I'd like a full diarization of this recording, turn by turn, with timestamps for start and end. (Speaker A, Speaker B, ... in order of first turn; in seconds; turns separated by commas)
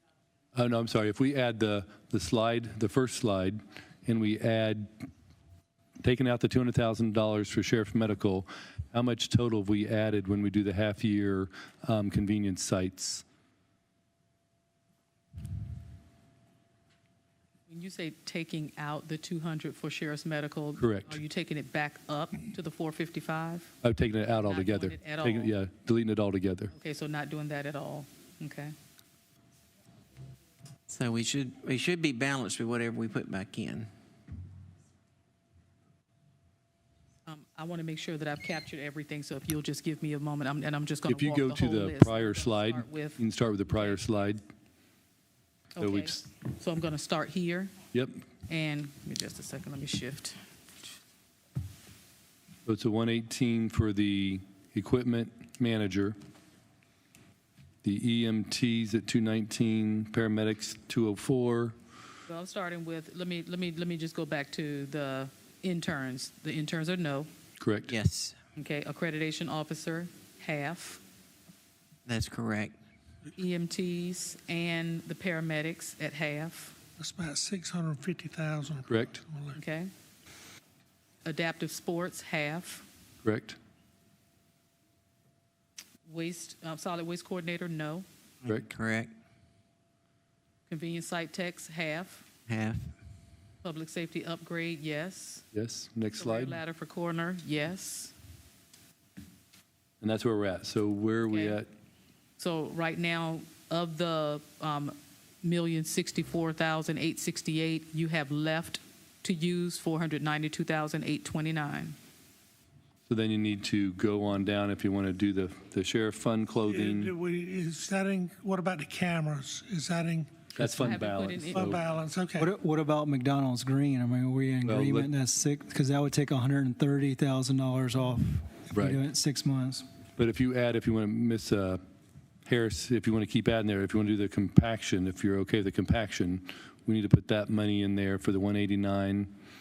Speaker A: 0.5-4.9, Speaker A: 6.0-13.2, Speaker B: 17.7-23.7, Speaker A: 20.8-21.2, Speaker A: 23.8-26.7, Speaker B: 24.4-25.5, Speaker B: 26.7-28.7, Speaker C: 30.9-33.9, Speaker B: 37.3-44.1, Speaker A: 41.1-44.4, Speaker B: 45.8-47.8, Speaker A: 45.8-46.2, Speaker A: 47.9-48.2, Speaker B: 48.5-50.4, Speaker A: 52.7-56.2, Speaker A: 57.8-61.8, Speaker B: 62.3-67.3, Speaker A: 67.6-67.9, Speaker C: 67.9-68.4, Speaker B: 68.6-71.0, Speaker C: 72.1-72.8, Speaker B: 73.4-76.8, Speaker D: 77.0-79.6, Speaker A: 78.9-79.2, Speaker B: 79.5-79.9, Speaker B: 81.2-82.9, Speaker A: 83.2-83.6, Speaker B: 86.0-88.1, Speaker C: 88.6-89.1, Speaker B: 90.7-92.3, Speaker C: 92.5-92.9, Speaker B: 93.6-95.4, Speaker A: 95.5-96.6, Speaker B: 96.1-98.1, Speaker A: 100.0-101.7, Speaker B: 101.2-101.6, Speaker B: 102.4-112.0, Speaker A: 113.1-117.1, Speaker D: 116.7-120.5, Speaker A: 120.5-121.8, Speaker B: 120.6-121.8, Speaker D: 121.5-122.5, Speaker E: 122.4-129.8, Speaker A: 124.7-125.1, Speaker A: 130.2-131.8, Speaker A: 132.5-139.3